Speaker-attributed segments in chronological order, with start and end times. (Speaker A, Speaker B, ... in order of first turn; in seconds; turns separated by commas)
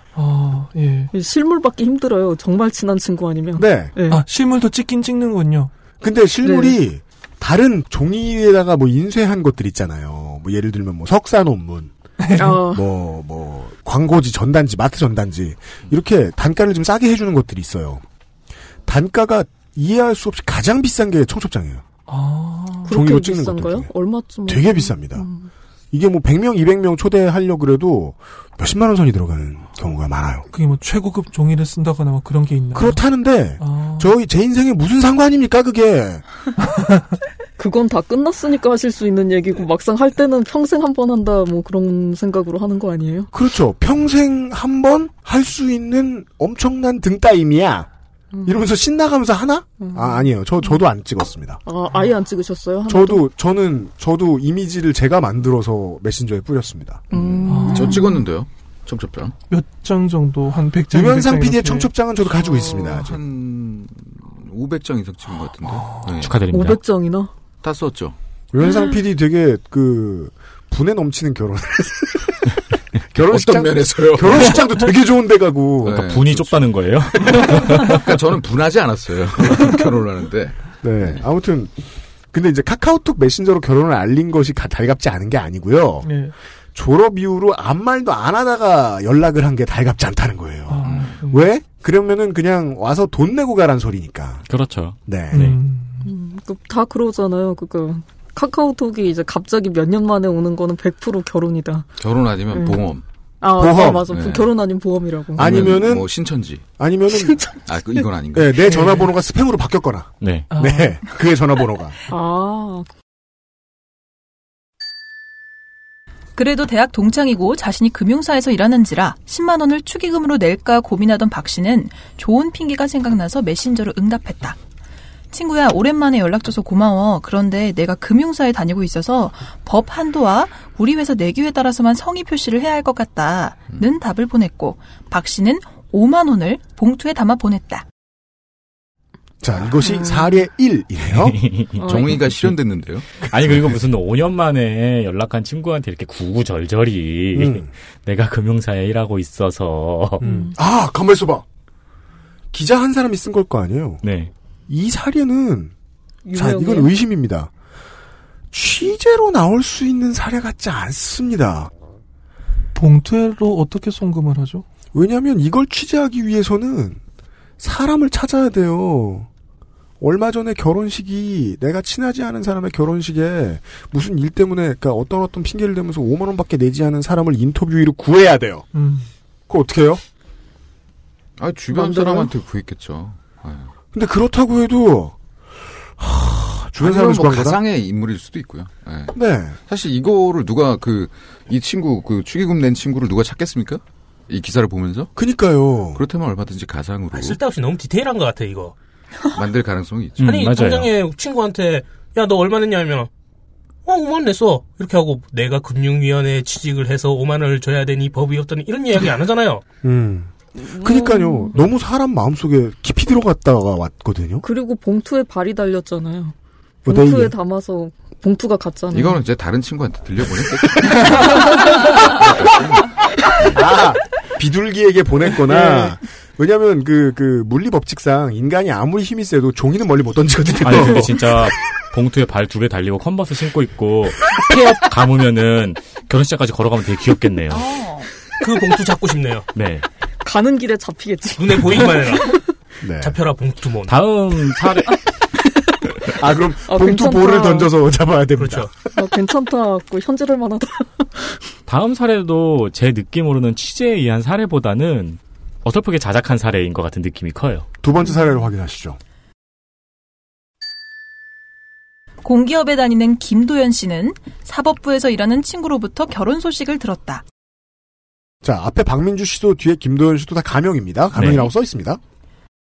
Speaker A: 0.1-1.1, Speaker B: 1.1-4.2, Speaker C: 3.5-3.9, Speaker A: 4.1-5.7, Speaker C: 6.0-18.0, Speaker B: 6.4-6.8, Speaker A: 12.2-12.5, Speaker B: 12.3-12.8, Speaker C: 18.9-21.9, Speaker A: 22.1-22.9, Speaker B: 22.9-25.5, Speaker C: 22.9-23.9, Speaker C: 24.5-25.3, Speaker C: 25.9-30.5, Speaker A: 30.5-33.0, Speaker C: 32.7-36.2, Speaker A: 33.6-34.1, Speaker A: 36.6-37.1, Speaker B: 37.6-43.3, Speaker C: 43.3-47.9, Speaker C: 48.5-51.6, Speaker B: 49.8-50.8, Speaker B: 51.7-53.3, Speaker C: 52.9-57.2, Speaker B: 57.1-58.0, Speaker D: 57.1-59.4, Speaker A: 57.5-58.2, Speaker A: 59.5-61.9, Speaker C: 60.9-63.2, Speaker D: 62.2-66.4, Speaker E: 66.2-66.8, Speaker B: 66.5-67.3, Speaker D: 67.6-68.2, Speaker C: 68.5-72.5, Speaker C: 73.1-76.3, Speaker D: 73.2-74.8, Speaker D: 75.8-76.5, Speaker E: 76.0-78.0, Speaker D: 77.2-81.2, Speaker C: 80.8-86.2, Speaker A: 86.0-86.3, Speaker C: 86.7-94.5, Speaker A: 90.7-91.5, Speaker D: 90.8-91.2, Speaker E: 94.5-95.6, Speaker C: 95.1-95.4, Speaker A: 95.3-96.1, Speaker B: 96.0-101.9, Speaker D: 102.0-103.0, Speaker B: 102.5-102.9, Speaker B: 103.4-105.8, Speaker C: 103.6-104.1, Speaker D: 104.0-104.6, Speaker D: 105.4-106.7, Speaker C: 105.4-106.1, Speaker C: 106.8-107.5, Speaker D: 107.7-108.8, Speaker C: 108.3-112.0, Speaker E: 110.2-110.5, Speaker A: 110.5-111.0, Speaker B: 112.1-112.9, Speaker F: 116.4-124.6, Speaker F: 125.3-137.8, Speaker C: 139.4-141.4, Speaker B: 139.9-140.3, Speaker E: 141.1-142.5, Speaker B: 141.8-142.1, Speaker D: 141.8-143.2, Speaker E: 143.2-150.2, Speaker C: 143.4-143.8, Speaker C: 147.3-147.7, Speaker B: 150.2-150.6, Speaker C: 150.2-151.4, Speaker C: 152.5-154.0, Speaker E: 154.0-154.3, Speaker C: 154.7-155.7, Speaker B: 156.2-156.9, Speaker C: 156.3-157.5, Speaker C: 158.5-161.7, Speaker A: 162.8-164.7, Speaker C: 164.9-167.0, Speaker C: 167.6-169.3, Speaker C: 170.0-178.7, Speaker A: 178.7-179.1, Speaker C: 179.5-180.0, Speaker D: 181.4-183.7, Speaker B: 181.7-182.3, Speaker C: 183.9-185.2, Speaker C: 185.8-187.6, Speaker D: 186.8-195.1, Speaker C: 189.1-189.6, Speaker C: 195.2-196.0, Speaker D: 195.9-197.4, Speaker G: 197.1-198.8, Speaker D: 199.3-200.4, Speaker G: 200.2-203.1, Speaker E: 200.2-200.9, Speaker G: 203.8-209.6, Speaker C: 209.8-214.4, Speaker B: 210.6-211.6, Speaker B: 214.4-216.3, Speaker C: 216.8-217.3, Speaker B: 216.9-219.2, Speaker D: 218.9-223.6, Speaker C: 223.5-231.5, Speaker E: 230.6-237.7, Speaker F: 237.5-238.1, Speaker G: 238.4-239.5, Speaker E: 239.5-239.9, Speaker B: 240.2-242.3, Speaker G: 241.4-242.4, Speaker C: 242.8-243.2, Speaker G: 243.0-244.0, Speaker E: 243.9-245.1, Speaker C: 246.1-248.7, Speaker B: 246.7-247.7, Speaker G: 248.4-248.7, Speaker B: 248.9-251.4, Speaker E: 251.7-257.7, Speaker C: 257.8-259.0, Speaker F: 262.2-267.2, Speaker C: 268.4-272.0, Speaker E: 271.1-271.5